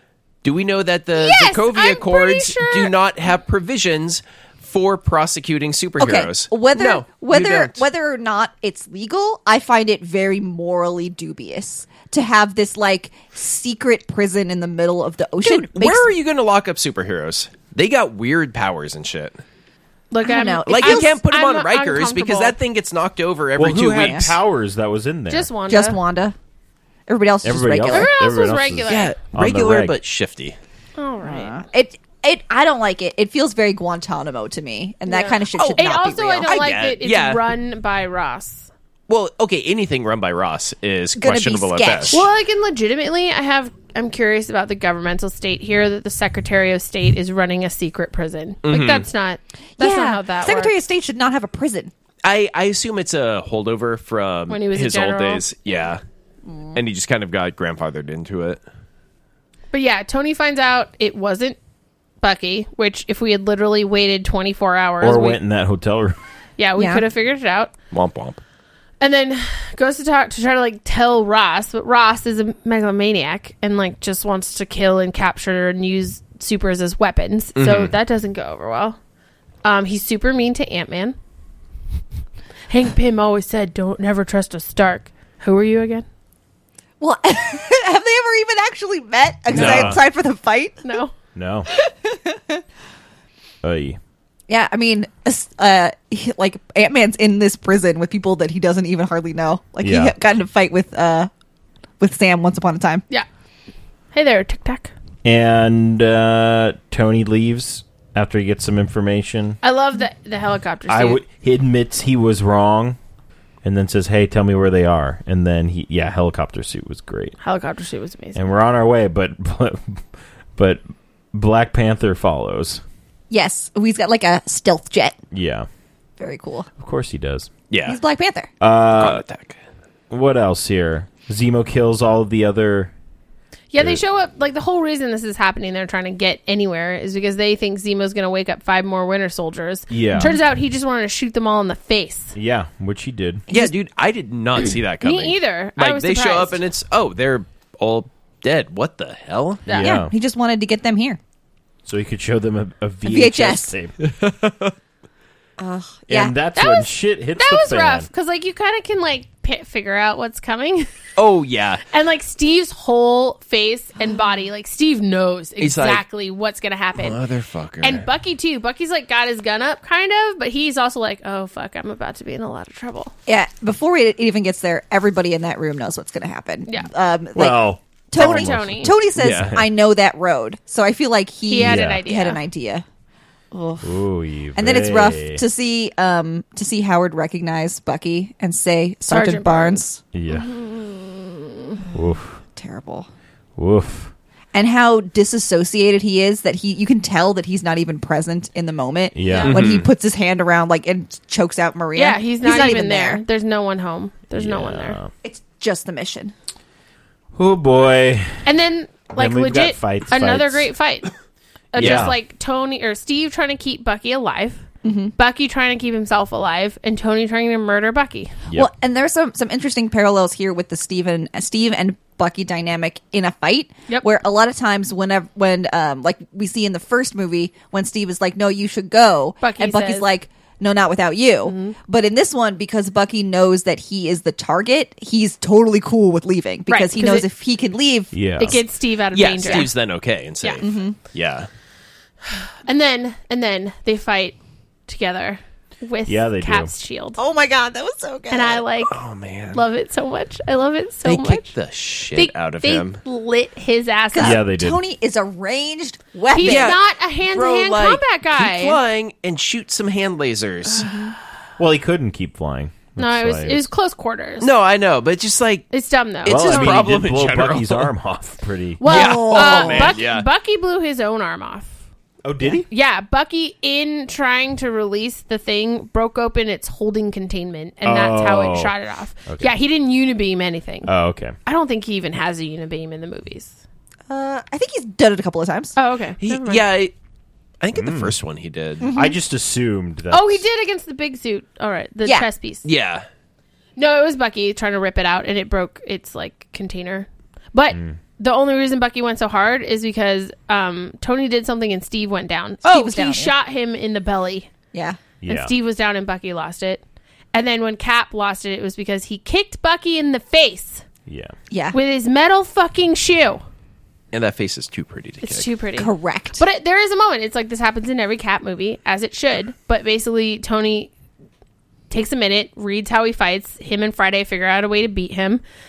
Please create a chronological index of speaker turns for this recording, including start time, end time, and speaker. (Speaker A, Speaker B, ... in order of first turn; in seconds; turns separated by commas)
Speaker A: 0.4-7.8, Speaker B: 1.1-2.9, Speaker C: 6.0-16.1, Speaker A: 15.4-19.4, Speaker B: 20.1-22.6, Speaker C: 20.2-21.1, Speaker A: 20.7-24.3, Speaker D: 23.6-25.5, Speaker C: 23.9-24.3, Speaker B: 25.3-26.0, Speaker C: 25.7-26.3, Speaker C: 27.1-28.3, Speaker D: 27.4-29.9, Speaker B: 27.9-29.1, Speaker A: 28.9-30.6, Speaker B: 31.0-31.6, Speaker C: 31.2-36.6, Speaker B: 35.1-38.7, Speaker A: 35.5-35.9, Speaker A: 36.4-37.4, Speaker A: 39.1-42.2, Speaker C: 41.2-42.3, Speaker B: 42.1-50.7, Speaker A: 48.6-49.1, Speaker C: 49.8-51.9, Speaker A: 52.2-56.0, Speaker B: 54.5-55.5, Speaker C: 56.5-56.8, Speaker A: 56.7-58.6, Speaker B: 59.7-61.6, Speaker B: 62.2-65.4, Speaker D: 65.0-66.2, Speaker B: 66.6-67.7, Speaker C: 66.8-67.0, Speaker A: 67.9-68.4, Speaker B: 69.0-79.0, Speaker A: 77.5-77.9, Speaker B: 79.6-81.2, Speaker B: 82.7-86.0, Speaker C: 87.0-90.8, Speaker A: 89.5-90.0, Speaker D: 89.5-90.0, Speaker B: 90.8-91.1, Speaker D: 91.3-91.7, Speaker C: 91.7-92.6, Speaker D: 93.6-94.0, Speaker C: 94.5-101.3, Speaker D: 99.8-100.1, Speaker C: 102.0-103.0, Speaker B: 104.1-104.9, Speaker D: 105.2-109.6, Speaker B: 109.6-111.2, Speaker D: 110.9-113.0, Speaker D: 113.6-117.3, Speaker B: 117.4-118.4, Speaker D: 118.3-120.0, Speaker D: 120.5-120.8, Speaker D: 121.3-122.8, Speaker C: 123.3-125.2, Speaker D: 125.3-125.7, Speaker C: 126.2-126.7, Speaker D: 126.8-127.5, Speaker A: 127.7-128.0, Speaker C: 127.8-128.5, Speaker D: 128.6-129.2, Speaker A: 128.9-129.6, Speaker D: 130.1-132.9, Speaker B: 133.7-142.3, Speaker D: 139.9-140.3, Speaker D: 142.3-143.4, Speaker A: 143.5-149.7, Speaker B: 144.6-146.6, Speaker B: 149.7-150.0, Speaker D: 149.7-150.1, Speaker C: 149.8-151.2, Speaker D: 151.8-153.9, Speaker C: 153.0-153.7, Speaker A: 154.0-154.7, Speaker C: 155.6-156.3, Speaker D: 156.1-158.1, Speaker B: 156.6-160.9, Speaker A: 161.2-161.8, Speaker B: 161.9-167.2, Speaker A: 165.6-166.0, Speaker A: 166.9-168.1, Speaker B: 167.8-173.1, Speaker C: 173.3-182.8, Speaker D: 177.3-179.7, Speaker B: 178.2-179.0, Speaker A: 179.2-179.6, Speaker B: 181.5-182.4, Speaker D: 181.6-182.0, Speaker C: 183.5-183.8, Speaker D: 183.8-185.4, Speaker C: 184.6-190.0, Speaker B: 189.1-191.8, Speaker D: 190.1-190.5, Speaker D: 191.9-192.4, Speaker C: 192.6-193.1, Speaker D: 193.6-194.1, Speaker C: 194.5-203.2, Speaker D: 199.1-199.6, Speaker B: 199.2-199.6, Speaker A: 199.4-199.9, Speaker B: 201.9-205.0, Speaker D: 204.3-205.1, Speaker C: 205.2-206.3, Speaker D: 207.3-208.5, Speaker B: 208.4-211.1, Speaker D: 209.1-210.7, Speaker B: 211.7-214.6, Speaker D: 211.8-212.2, Speaker C: 214.8-215.1, Speaker B: 215.2-218.3, Speaker C: 218.5-238.1, Speaker B: 229.4-230.1, Speaker B: 231.4-231.8, Speaker B: 236.7-237.3, Speaker D: 238.1-238.6, Speaker B: 238.4-239.7, Speaker A: 239.1-241.5, Speaker C: 240.6-240.9, Speaker B: 242.7-244.3, Speaker B: 244.9-247.2, Speaker D: 246.1-246.7, Speaker C: 247.2-248.6, Speaker B: 248.3-249.0, Speaker A: 248.8-249.6, Speaker B: 249.5-251.5, Speaker A: 251.0-253.0, Speaker B: 252.1-254.4, Speaker C: 254.1-256.8, Speaker D: 254.2-254.8, Speaker B: 256.3-258.8, Speaker A: 256.4-260.9, Speaker C: 260.8-261.1, Speaker D: 261.6-263.7, Speaker B: 263.0-264.5, Speaker A: 264.4-265.7, Speaker B: 265.7-266.9, Speaker A: 266.2-267.9, Speaker D: 266.2-268.9, Speaker B: 268.8-271.7, Speaker A: 268.8-270.2, Speaker C: 268.9-270.0, Speaker D: 272.2-272.7, Speaker B: 272.7-280.9, Speaker D: 277.8-278.7, Speaker D: 279.3-279.5, Speaker D: 280.8-281.4, Speaker B: 281.4-283.6, Speaker C: 284.1-285.7, Speaker B: 285.8-286.6, Speaker A: 286.2-286.9, Speaker A: 287.6-288.9, Speaker D: 287.7-288.1, Speaker C: 288.8-289.2, Speaker D: 288.9-290.4, Speaker B: 290.1-292.6, Speaker A: 292.6-293.1, Speaker B: 293.8-304.5, Speaker D: 297.7-298.0, Speaker C: 302.6-303.3, Speaker C: 304.7-305.0, Speaker D: 305.2-305.5, Speaker B: 305.2-306.8, Speaker B: 307.3-310.8, Speaker D: 311.1-311.3, Speaker C: 311.5-311.8, Speaker B: 311.7-313.4, Speaker A: 314.1-315.5, Speaker B: 315.2-320.9, Speaker C: 315.8-316.4, Speaker B: 321.9-325.4